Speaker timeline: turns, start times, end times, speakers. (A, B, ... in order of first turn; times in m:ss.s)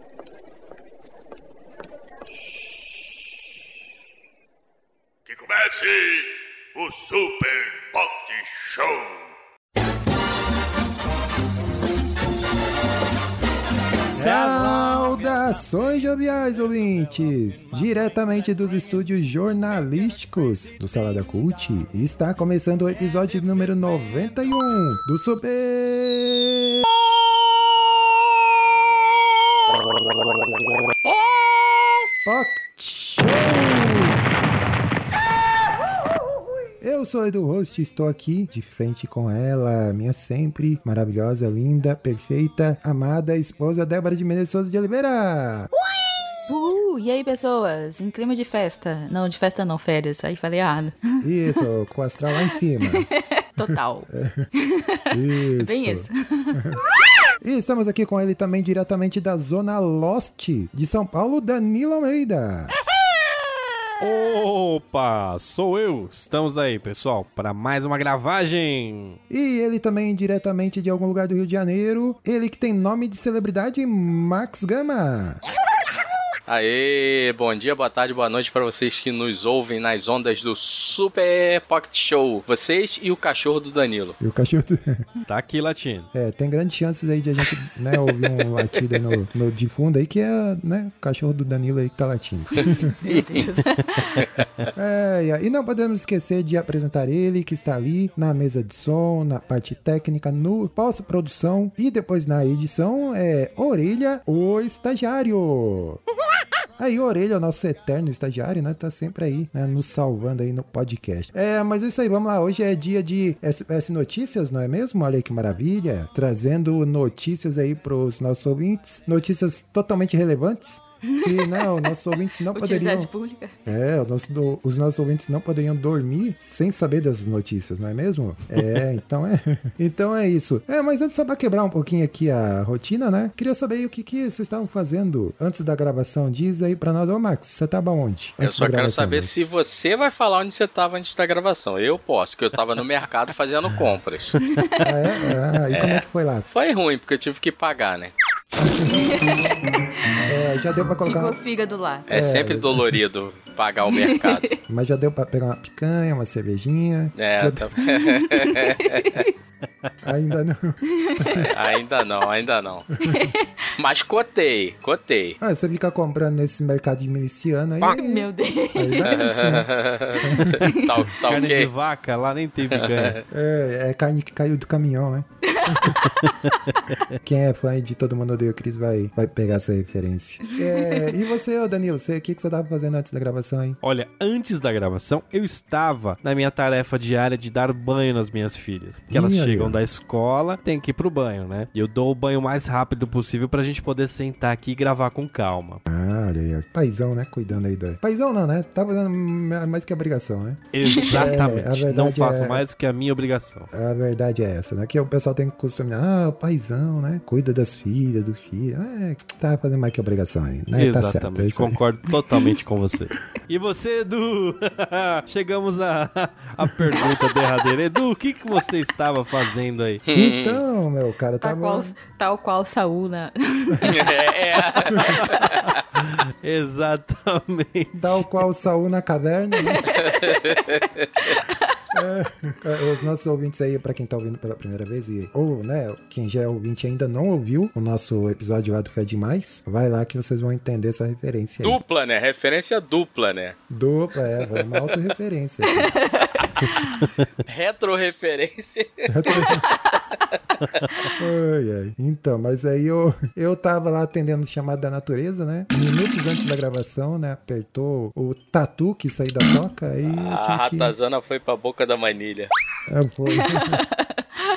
0:05.3-0:09.3 A
0:14.1-0:26.8 B
0:32.2-0:34.2 B
0:36.8-0:45.7 B
0:46.4-0:51.2 C
0:51.2-0:53.1 B
0:52.4-0:55.1 C
0:53.6-0:54.5 B
0:55.1-0:56.8 B
0:55.6-0:56.6 C
0:57.4-1:02.8 B
1:04.0-1:09.2 D
1:09.3-1:15.4 B
1:16.5-1:24.2 E
1:24.2-1:25.1 B
1:25.3-1:26.1 D
1:26.1-1:32.9 B
1:33.0-1:34.3 C
1:34.8-1:46.0 B
1:46.8-2:03.1 B
2:01.0-2:02.0 C
2:02.5-2:03.6 C
2:03.7-2:19.3 B
2:18.4-2:24.4 E
2:24.4-2:24.9 C
2:24.8-2:26.5 B
2:25.7-2:28.1 E
2:28.6-2:29.2 B
2:28.9-2:29.3 C
2:30.2-2:31.4 B
2:31.0-2:32.1 C
2:32.1-2:33.0 B
2:32.1-2:34.5 E
2:33.9-2:34.6 C
2:34.7-2:37.8 B
2:37.2-2:39.2 E
2:37.9-2:39.3 C
2:40.0-2:41.5 B
2:40.8-2:41.5 C
2:41.5-2:42.9 E
2:43.0-2:43.6 C
2:43.8-2:45.4 E
2:45.4-2:49.7 B
2:47.8-2:49.3 C
2:49.0-2:51.7 E
2:50.2-2:50.6 B
2:51.2-2:53.2 D
2:52.7-2:53.2 E
2:53.3-2:56.0 B
2:55.5-2:55.8 C
2:56.7-2:57.0 D
2:57.2-3:03.8 B
3:03.8-3:15.8 D
3:09.1-3:09.8 B
3:15.9-3:22.7 B
3:20.7-3:23.7 D
3:20.8-3:21.2 C
3:23.7-3:31.8 B
3:30.7-3:40.0 D
3:40.1-3:40.6 E
3:40.1-3:41.9 B
3:41.4-3:45.0 C
3:43.8-3:45.7 E
3:45.2-3:48.3 D
3:48.0-3:49.9 B
3:49.9-3:51.3 E
3:51.9-4:01.8 B
4:01.6-4:03.6 E
4:03.7-4:06.0 B
4:04.4-4:05.1 E
4:06.1-4:06.8 C
4:07.5-4:09.6 E
4:09.1-4:09.6 B
4:11.2-4:20.9 B
4:20.0-4:22.5 E
4:22.9-4:23.8 B
4:23.3-4:24.1 C